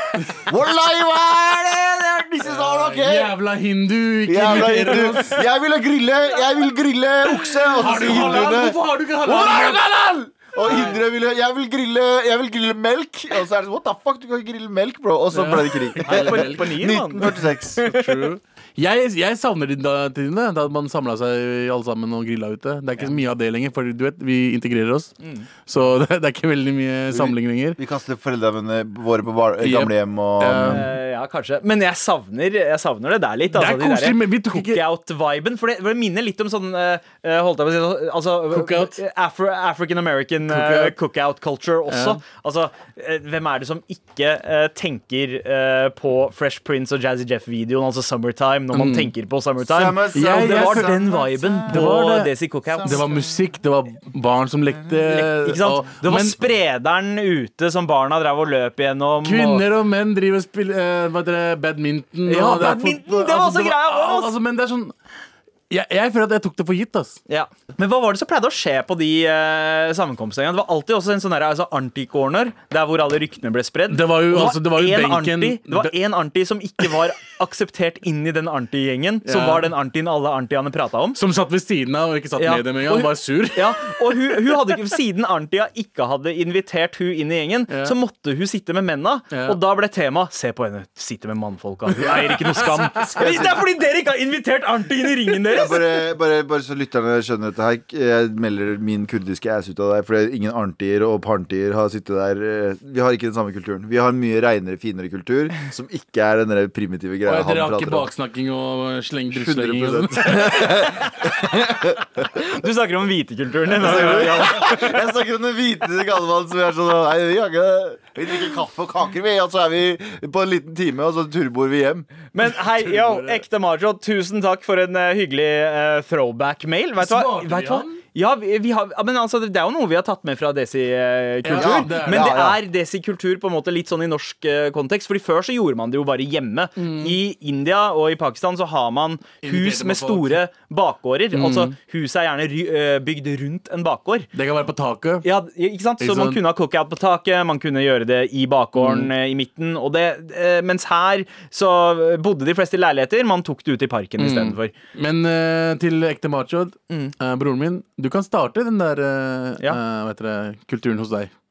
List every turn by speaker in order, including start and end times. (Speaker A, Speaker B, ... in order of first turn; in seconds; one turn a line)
Speaker A: 0.3-3.3
Speaker B: 2.5-5.4
Speaker A: 4.3-17.9
Speaker B: 7.3-9.9
Speaker B: 10.6-11.0
Speaker B: 15.3-27.8
Speaker C: 16.1-18.2
Speaker C: 25.2-25.5
Speaker A: 27.1-30.9
Speaker B: 29.6-30.9
Speaker C: 30.6-53.1
Speaker B: 33.5-34.8
Speaker B: 38.5-39.0
Speaker B: 40.5-41.0
Speaker B: 41.9-42.2
Speaker B: 48.7-49.1
Speaker A: 49.6-52.0
Speaker B: 50.1-51.0
Speaker B: 51.7-52.3
Speaker A: 52.7-53.3
Speaker B: 52.8-56.4
Speaker C: 55.1-59.6
Speaker B: 59.2-64.9
Speaker C: 62.3-64.3
Speaker B: 65.7-67.2
Speaker C: 67.3-81.2
Speaker B: 73.9-75.9
Speaker B: 79.2-79.7
Speaker B: 81.2-84.4
Speaker C: 82.4-95.9
Speaker B: 87.7-88.0
Speaker B: 89.3-89.6
Speaker B: 92.0-93.5
Speaker A: 92.9-93.6
Speaker A: 95.5-108.1
Speaker B: 107.3-110.9
Speaker A: 109.3-112.3
Speaker C: 110.8-111.5
Speaker C: 112.3-115.0
Speaker A: 113.8-122.1
Speaker C: 122.3-144.3
Speaker B: 122.6-123.4
Speaker B: 127.0-128.0
Speaker B: 131.4-132.3
Speaker A: 131.5-132.6
Speaker B: 136.8-137.2
Speaker B: 139.4-140.4
Speaker B: 141.3-141.7
Speaker B: 144.3-145.2
Speaker C: 145.2-154.7
Speaker B: 146.0-146.4
Speaker B: 148.8-149.1
Speaker B: 154.2-161.3